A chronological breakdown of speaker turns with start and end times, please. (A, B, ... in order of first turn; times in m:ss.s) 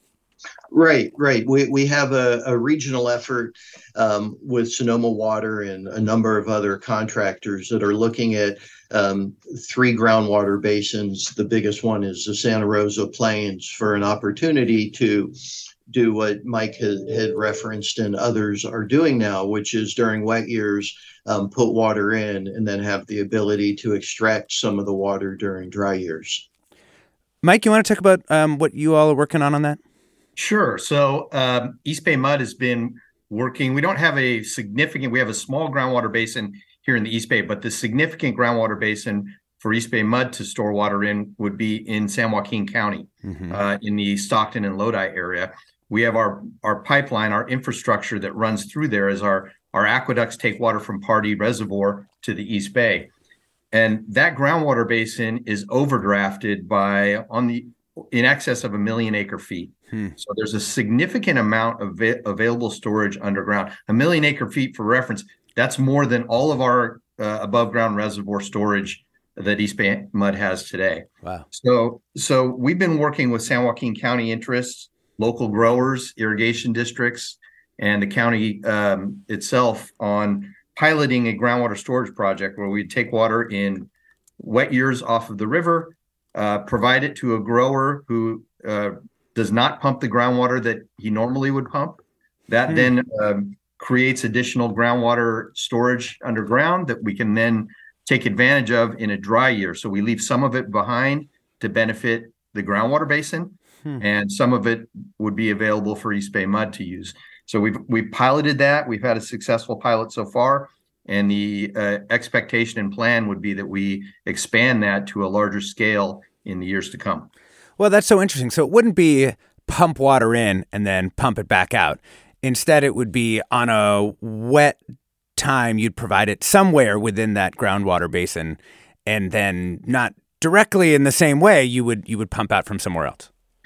0:00.7-0:26.4 A
0:27.4-0:29.8 B
0:30.4-0:53.1 C
0:43.2-0:43.6 B
0:53.7-1:57.3 C
1:57.8-2:04.8 B
2:05.4-2:13.3 B